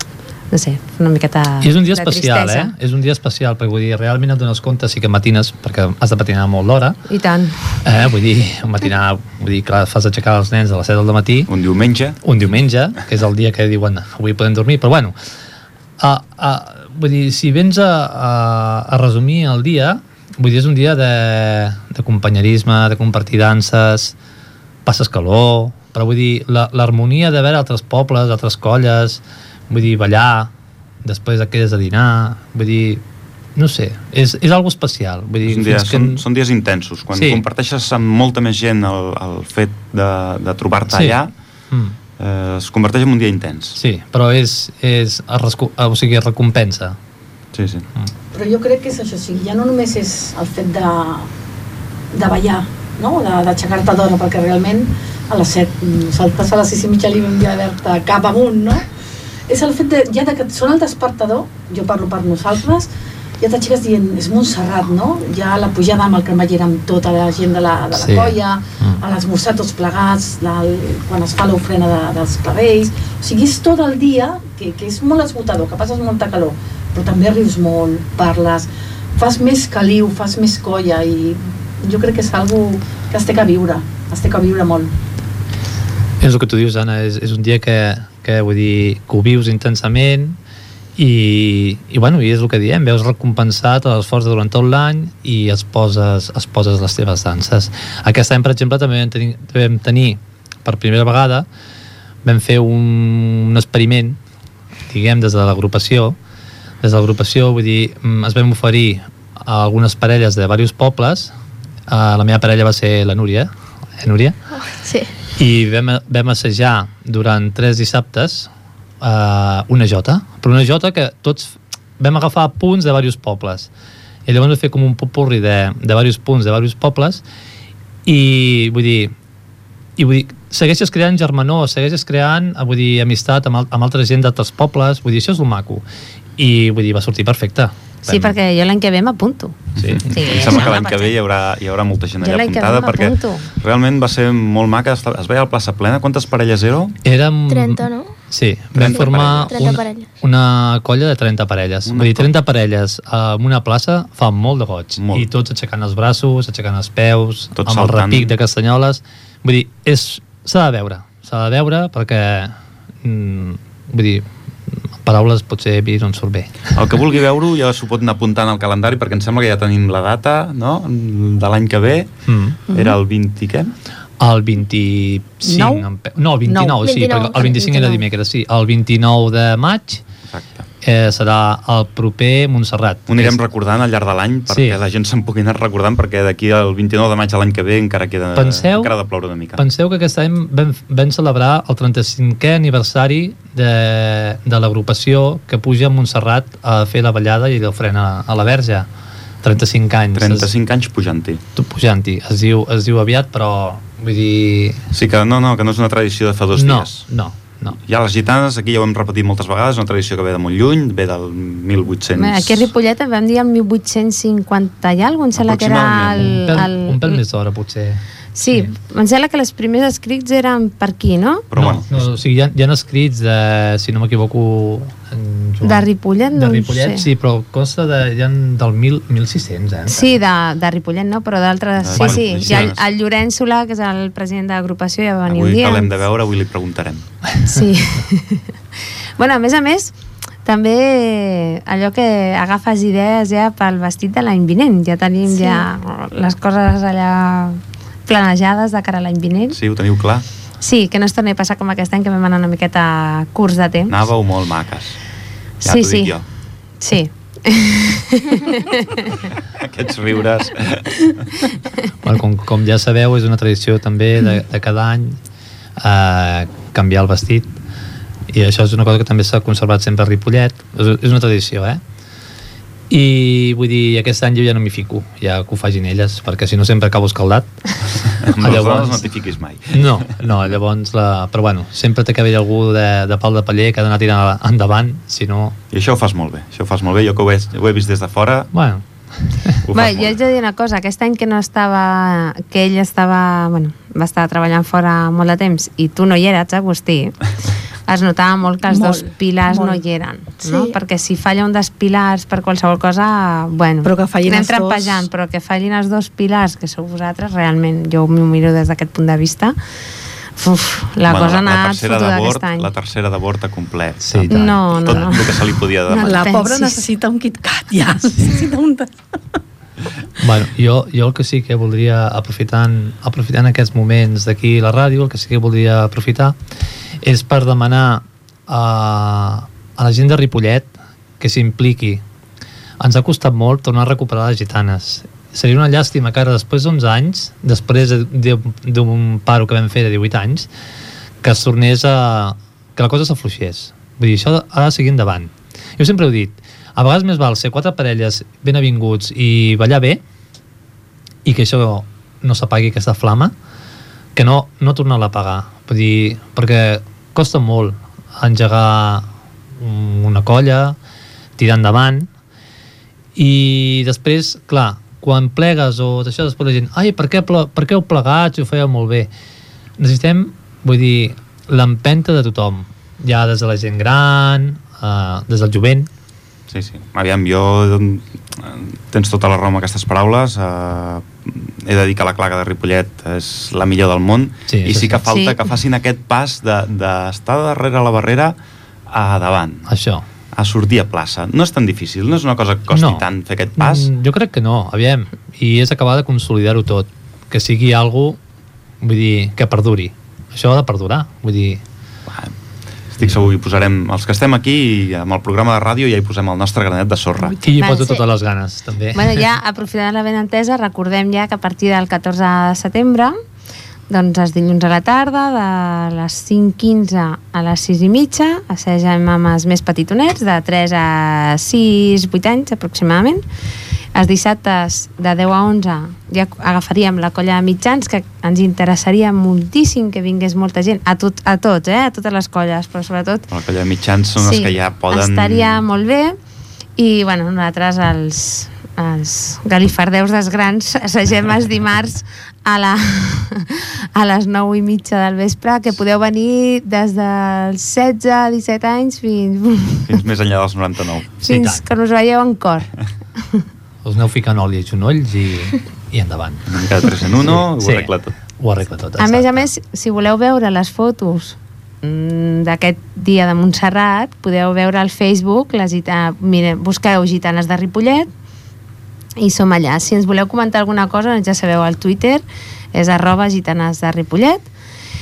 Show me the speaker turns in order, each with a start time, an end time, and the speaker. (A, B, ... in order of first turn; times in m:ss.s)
0:00.5-0:02.7 A
0:01.6-0:07.0 B
0:07.1-0:07.8 A
0:07.8-0:11.5 B
0:11.5-0:12.2 C
0:12.2-0:15.2 B
0:16.0-0:24.1 B
0:24.8-0:30.5 B
0:31.0-0:33.0 B
0:33.6-0:36.2 B
0:35.4-0:41.3 C
0:37.1-0:37.4 B
0:40.9-0:41.2 B
0:41.7-0:42.0 B
0:42.2-0:43.8 C
0:43.7-0:47.0 B
0:47.5-0:47.8 C
0:48.3-0:51.3 D
0:52.1-0:58.9 D
0:59.5-1:02.9 D
1:03.4-1:24.9 D
1:07.9-1:09.0 B
1:26.2-1:30.4 B
1:31.0-1:41.4 B
1:42.2-1:44.2 B
1:44.9-1:46.2 B
1:46.8-1:51.3 B
1:51.9-1:54.3 B
1:54.6-1:55.1 E
1:55.4-1:58.5 B
1:59.0-2:03.7 B
2:04.2-2:07.2 B
2:08.0-2:09.1 B
2:10.0-2:15.8 B
2:16.4-2:18.3 B
2:18.0-2:21.1 A
2:19.8-2:20.0 B
2:19.8-2:27.0 C
2:22.2-2:23.5 A
2:27.0-2:46.8 B
2:27.5-2:28.1 E
2:28.7-2:29.7 C
2:28.9-2:30.1 E
2:31.9-2:32.3 C
2:35.0-2:35.3 C
2:37.6-2:38.3 C
2:46.7-2:52.1 C
2:52.2-2:52.6 B
2:52.7-2:53.0 D
2:52.7-2:53.7 C
2:54.2-3:00.0 B
2:55.4-2:55.8 D
2:56.4-2:56.8 D
2:56.8-2:58.0 E
3:00.3-3:00.6 C
3:00.8-3:03.4 B
3:03.1-3:09.6 C
3:04.5-3:04.8 B
3:08.3-3:08.9 B
3:09.6-3:18.9 B
3:19.4-3:20.5 B
3:20.1-3:21.4 C
3:21.6-3:24.8 B
3:24.9-3:27.0 C
3:26.5-3:27.8 B
3:27.8-3:32.7 C
3:32.2-3:37.2 A
3:35.4-3:36.6 C
3:36.3-3:38.7 B
3:38.3-3:41.5 A
3:41.5-3:41.9 C
3:41.6-3:50.1 B
3:45.6-3:47.0 A
3:49.9-3:56.0 A
3:51.8-3:52.8 C
3:52.0-3:52.7 B
3:55.3-3:57.0 C
3:57.4-3:58.5 A
3:59.2-3:59.9 A
4:00.4-4:09.6 A
4:09.5-4:10.2 C
4:10.6-4:14.0 A
4:13.9-4:15.0 C
4:15.6-4:16.2 A
4:15.6-4:16.2 C
4:16.8-4:19.2 A
4:19.5-4:21.4 C
4:22.0-4:25.2 B
4:25.8-4:27.6 B
4:28.3-4:31.8 B
4:32.9-4:37.5 B
4:38.2-4:40.0 C
4:38.2-4:39.1 B
4:39.7-4:45.6 B
4:45.7-4:48.5 C
4:48.5-4:49.6 B
4:49.6-4:50.2 C
4:49.7-4:57.3 A
4:57.8-5:09.6 A
4:58.7-4:59.8 D
5:00.4-5:00.7 E
5:03.8-5:05.1 D
5:10.4-5:12.7 A
5:11.1-5:16.2 C
5:14.0-5:15.1 B
5:14.3-5:16.9 A
5:16.0-5:19.4 D
5:20.2-5:26.3 B
5:27.0-5:32.0 B
5:32.8-5:40.5 B
5:41.2-5:50.0 B
5:51.2-5:53.3 B
5:54.1-6:00.8 B
6:01.4-6:02.1 B
6:03.2-6:09.1 B
6:09.8-6:15.9 B
6:16.5-6:28.4 C
6:24.5-6:25.0 B
6:25.1-6:25.4 A
6:28.9-6:29.7 C
6:29.6-6:30.0 B
6:30.3-6:33.9 C
6:32.7-6:38.2 B
6:38.8-6:41.6 B
6:42.1-6:42.3 C
6:42.9-6:47.4 C
6:47.3-6:48.0 A
6:47.4-6:49.3 B
6:48.9-6:53.1 A
6:53.9-7:03.2 A
7:03.9-7:13.3 A
7:13.3-7:15.6 C
7:14.2-7:16.2 A
7:16.8-7:30.0 A
7:29.9-7:31.2 C
7:31.2-7:33.4 A
7:31.2-7:31.6 B
7:33.8-7:36.4 B
7:36.5-7:38.1 C
7:37.2-7:39.5 B
7:39.0-7:48.1 A
7:49.2-7:52.2 A
7:52.7-7:54.5 A